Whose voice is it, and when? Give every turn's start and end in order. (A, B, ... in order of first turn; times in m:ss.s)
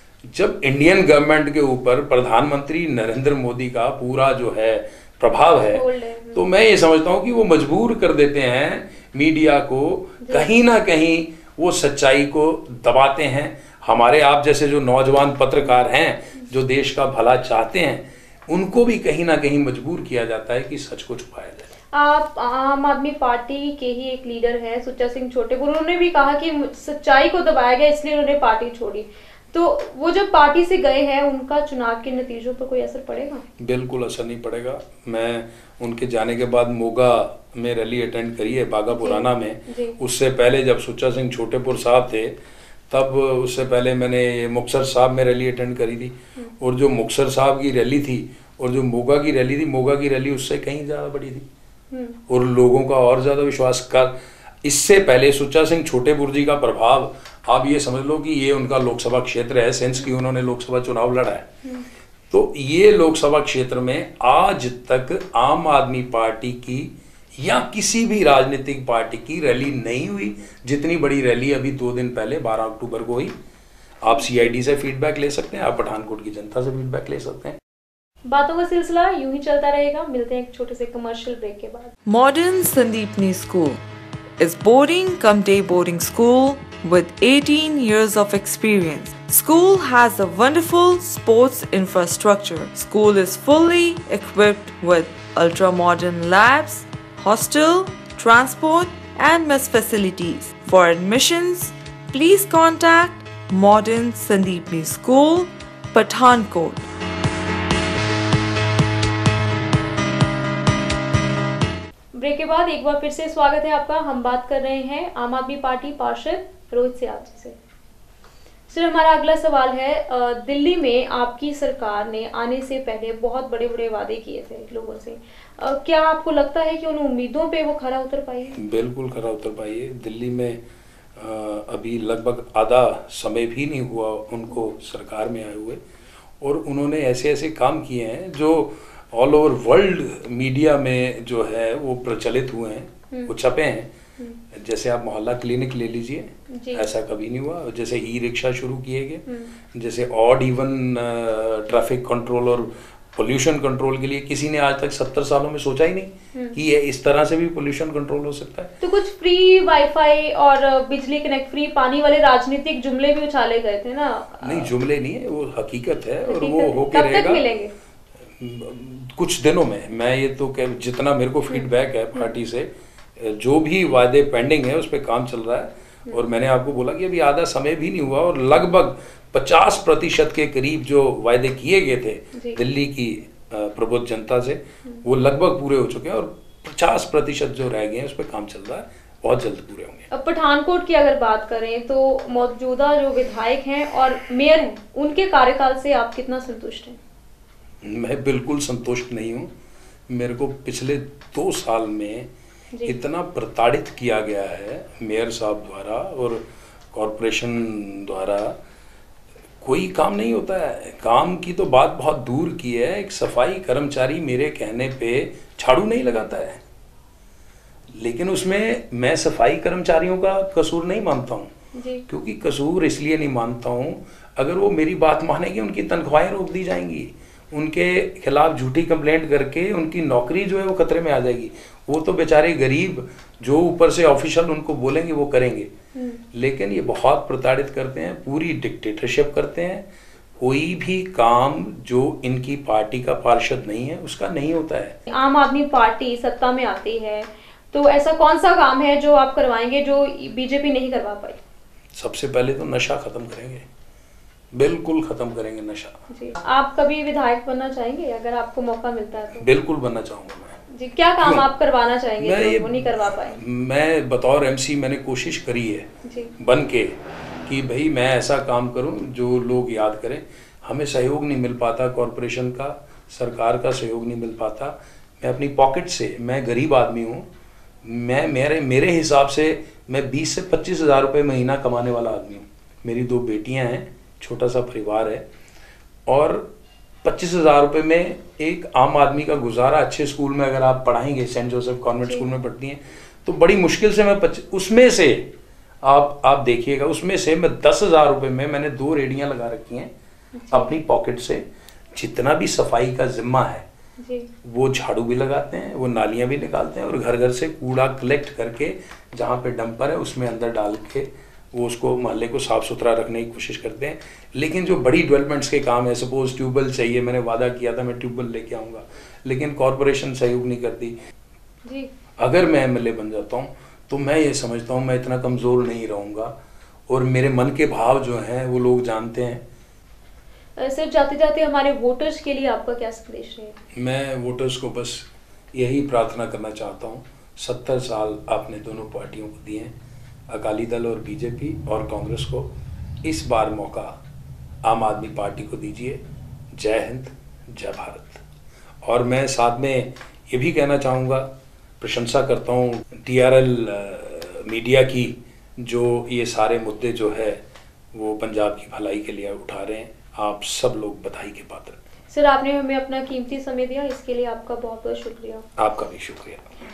0:00.3-0:21.7 A
0:05.7-0:06.5 B
0:10.2-0:10.5 B
0:21.9-0:33.4 B
0:33.6-0:42.4 A
0:38.9-0:40.0 B
0:42.9-0:51.4 A
0:51.9-0:52.2 B
0:52.3-1:01.5 A
1:02.3-1:13.3 A
1:14.0-1:17.6 A
1:14.1-1:14.4 B
1:18.3-1:21.9 B
1:22.0-1:23.8 C
1:24.4-1:46.8 C
1:52.1-1:57.6 B
1:58.7-2:08.6 B
2:08.5-2:10.6 A
2:11.2-2:15.8 A
2:16.4-2:23.9 A
2:24.5-2:38.7 A
2:26.5-2:26.8 B
2:38.8-2:44.7 B
2:44.4-2:47.4 A
2:46.2-2:47.7 B
2:48.4-3:10.1 A
2:51.5-2:52.3 B
3:02.3-3:02.6 B
3:10.1-3:17.0 B
3:17.8-3:19.5 A
3:20.1-3:22.3 A
3:22.7-3:23.0 B
3:22.8-3:28.6 A
3:29.6-3:36.6 A
3:37.9-3:41.5 A
3:41.7-3:42.0 B
3:42.1-3:55.7 A
3:55.9-3:56.2 B
3:56.3-3:59.9 A
4:00.4-4:05.0 A
4:05.1-4:11.4 B
4:11.9-4:13.6 A
4:14.5-4:16.0 A
4:16.1-4:19.5 B
4:19.4-4:20.6 A
4:20.7-4:23.4 B
4:21.2-4:21.5 A
4:22.2-4:25.9 A
4:26.0-4:26.3 B
4:26.4-4:37.3 A
4:37.8-4:45.2 A
4:46.1-4:46.5 A
4:47.0-4:55.3 A
4:52.0-4:52.3 B
4:55.8-4:59.9 A
5:00.3-5:00.7 B
5:00.5-5:03.6 A
5:04.0-5:04.3 B
5:04.4-5:20.9 A
5:21.6-5:21.9 B
5:22.2-5:26.4 A
5:26.9-5:29.4 A
5:30.6-5:33.6 B
5:33.7-5:39.7 A
5:40.3-5:42.5 A
5:43.0-5:44.0 A
5:44.6-5:46.0 A
5:46.5-5:48.2 A
5:48.8-5:57.4 A
5:57.9-6:01.8 A
6:02.1-6:05.4 B
6:05.6-6:06.5 A